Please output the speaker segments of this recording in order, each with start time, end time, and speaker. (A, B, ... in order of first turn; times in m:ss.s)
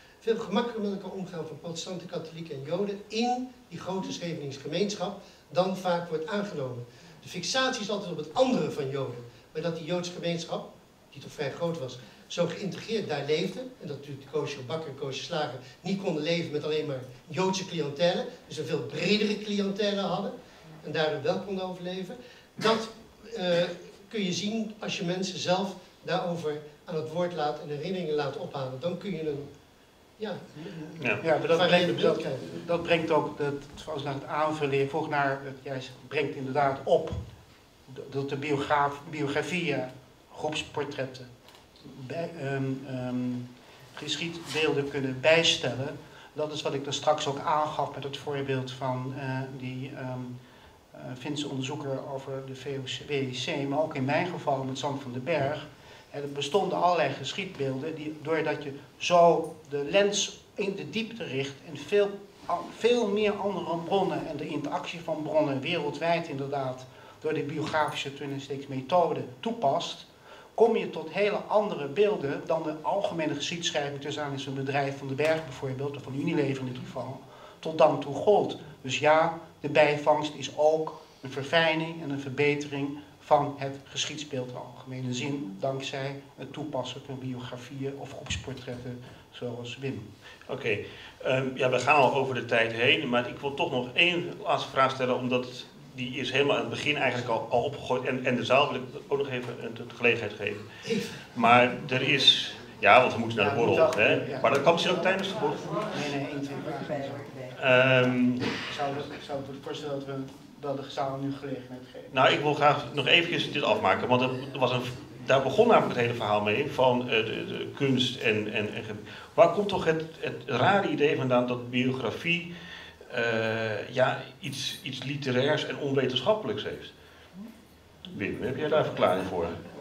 0:00.2-0:29.5 A
0:30.2-0:32.5 A
0:31.2-0:37.2 B
0:37.9-0:41.3 B
0:41.8-0:50.3 B
0:50.9-1:30.1 B
1:30.5-1:40.7 C
1:40.9-1:41.1 A
1:41.2-1:45.9 C
1:43.4-1:45.1 B
1:45.9-1:47.3 B
1:47.5-1:48.5 C
1:48.7-1:52.1 B
1:52.1-2:02.5 C
2:03.1-2:06.9 C
2:08.1-2:09.6 C